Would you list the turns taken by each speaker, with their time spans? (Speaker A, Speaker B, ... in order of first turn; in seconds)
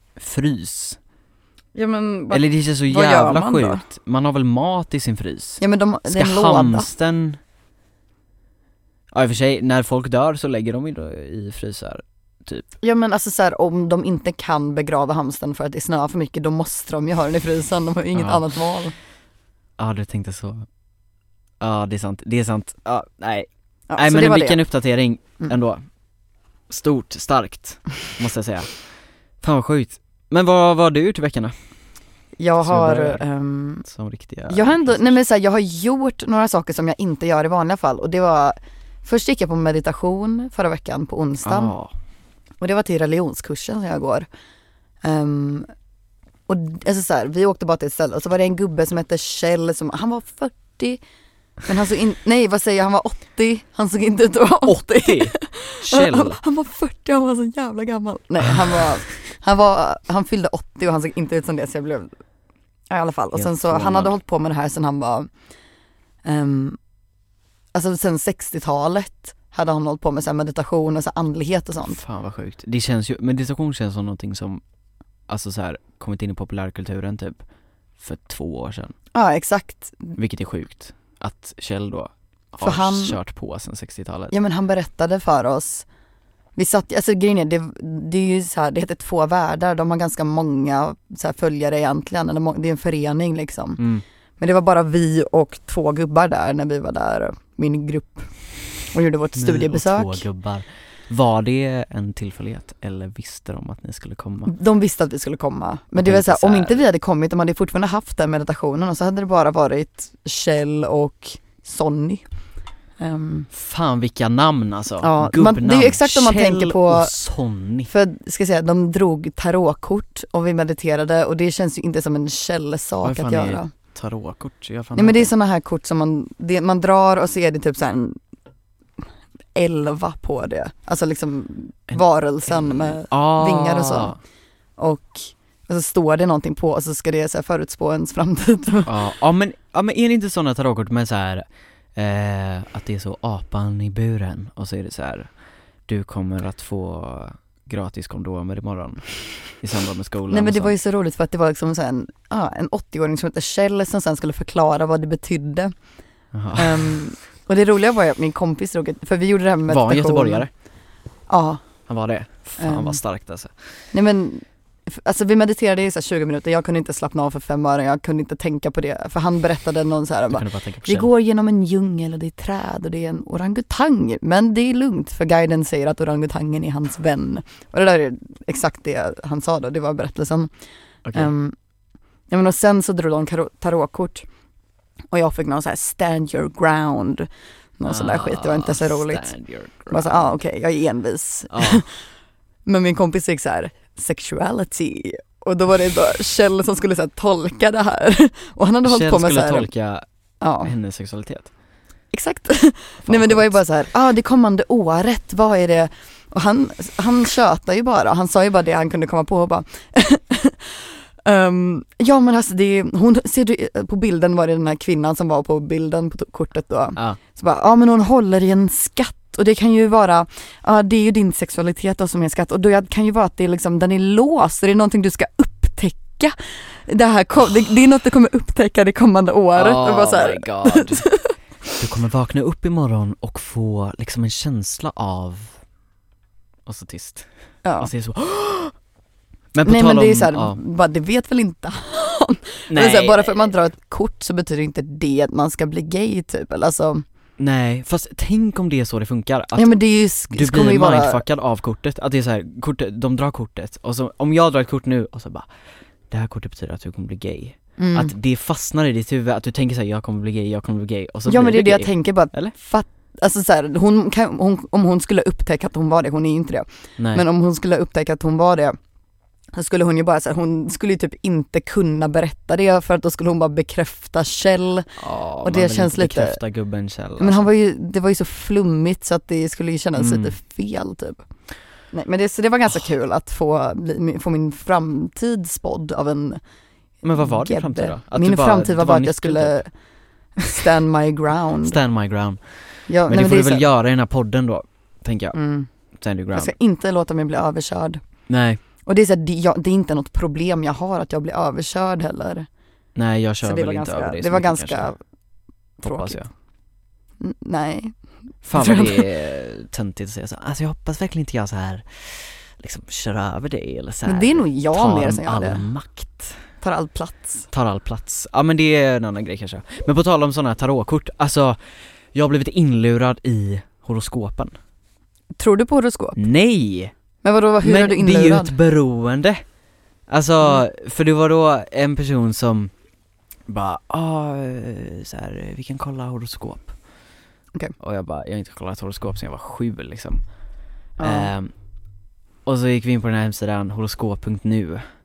Speaker A: 0.2-1.0, 2.3-7.4, 9.1-12.7, 18.1-18.4, 19.8-20.7, 21.6-25.8, 26.7-28.7, 29.4-31.5, 32.6-33.2, 33.9-35.1, 41.5-41.9, 54.6-56.4, 63.3-64.1, 71.8-74.6, 75.3-77.4, 78.0-79.0, 80.2-84.3, 93.8-94.0, 99.4-104.5, 106.0-106.8, 113.5-117.9, 123.0-125.3, 131.9-134.2, 138.9-141.4, 142.0-145.3, 145.9-149.1, 149.6-150.7, 156.3-157.0, 159.7-160.5, 161.9-163.5, 170.3-171.1, 187.9-190.3, 191.5-191.8, 198.8-200.1, 200.6-201.5, 203.1-203.5, 229.6-231.1, 231.8-235.5, 236.7-237.3, 237.8-238.7, 239.5-240.6, 242.7-243.5, 247.4-249.8, 250.3-255.5, 256.1-262.5, 267.0-267.2, 275.0-277.5, 280.0-280.4, 287.0-289.6, 291.6-292.4, 293.1-295.4, 296.0-296.5, 298.3-298.6, 302.9-304.9, 305.8-306.3, 308.4-316.4, 317.5-321.6, 322.1-324.5, 326.2-326.9, 327.6-329.4, 330.1-332.7, 333.5-336.7, 337.8-340.2, 341.0-341.5, 342.5-344.8
Speaker B: 1.8-3.8, 5.6-6.9, 12.8-18.9, 23.9-24.6, 32.4-33.9, 34.5-41.8, 42.6-44.3, 45.0-45.7, 46.5-51.0, 51.6-62.1, 62.9-65.3, 66.2-66.8, 67.7-72.0, 79.1-80.2, 82.6-83.2, 84.3-85.8, 86.6-93.8, 94.4-98.3, 98.9-100.2, 104.5-112.2, 113.0-113.5, 115.0-117.1, 117.9-123.7, 125.0-128.2, 129.6-134.2, 134.8-139.0, 150.3-155.7, 156.6-160.5, 161.3-161.6, 162.6-163.0, 163.9-180.5, 181.1-181.6, 182.3-184.2, 185.1-189.3, 189.9-191.9, 192.7-199.7, 200.4-200.7, 202.1-226.3, 226.9-231.3, 237.7-237.9, 239.6-247.1, 249.6-251.2, 257.8-258.1, 261.3-268.8, 269.5-274.9, 275.4-276.4, 277.2-281.2, 281.9-286.4, 287.2-289.7, 290.4-291.8, 292.9-293.7, 295.3-295.7, 296.3-298.0, 298.9-302.5, 303.4-305.0, 305.8-306.2, 307.2-307.9, 308.5-309.1, 314.1-315.6, 316.6-317.5, 325.4-326.2, 327.2-328.5, 341.0-341.3